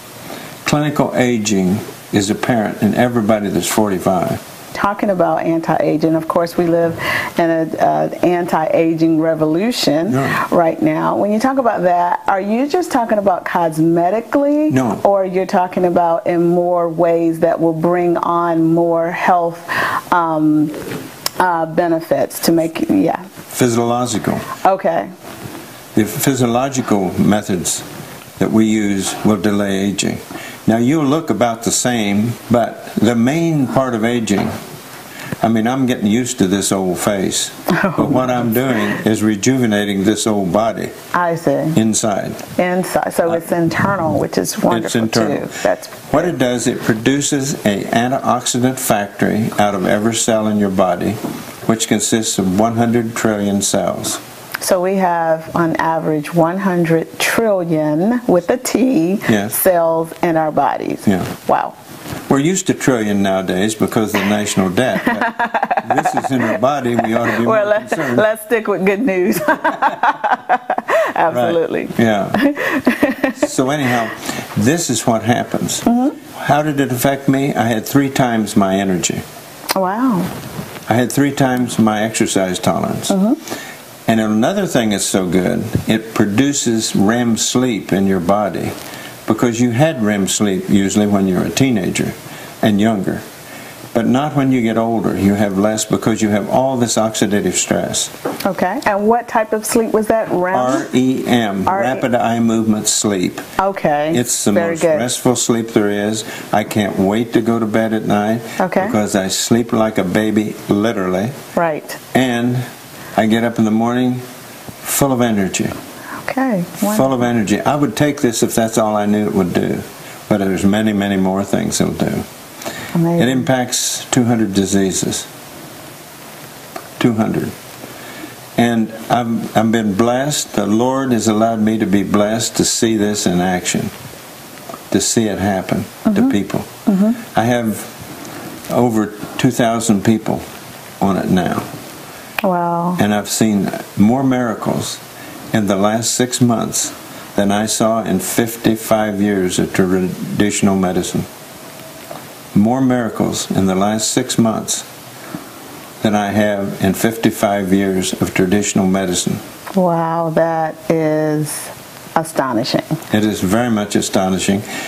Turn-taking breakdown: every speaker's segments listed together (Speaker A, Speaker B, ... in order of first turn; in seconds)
Speaker A: 0.7-4.4, 10.1-10.4, 14.7-15.0, 23.5-24.5, 25.9-27.9, 28.4-34.5, 35.4-40.9, 41.8-42.5, 44.7-45.5, 46.1-54.2, 59.3-59.6, 61.1-61.3, 62.3-68.3, 71.3-72.4, 73.4-79.2, 80.9-83.2, 84.1-88.8, 89.3-93.2, 93.9-98.1, 100.5-103.5, 104.1-111.4, 112.1-114.2, 114.8-115.7, 116.8-122.3, 123.2-125.3, 127.0-127.5, 128.6-133.9, 134.9-137.9, 138.7-140.4, 141.0-141.7, 143.0-145.0, 145.5-151.3, 152.5-154.9, 156.0-159.4, 163.1-164.7
Speaker B: 4.7-20.8, 21.4-23.2, 24.6-25.1, 37.7-38.2, 41.1-41.8, 42.6-46.2, 54.6-61.8, 65.2-66.6, 67.2-73.4, 75.9-76.2, 79.8-80.3, 83.1-83.4, 98.5-100.9, 101.7-102.0, 103.6-105.1, 108.6-109.0, 111.5-112.0, 116.2-117.1, 122.9-123.4, 136.9-137.2, 142.4-143.0, 159.7-162.9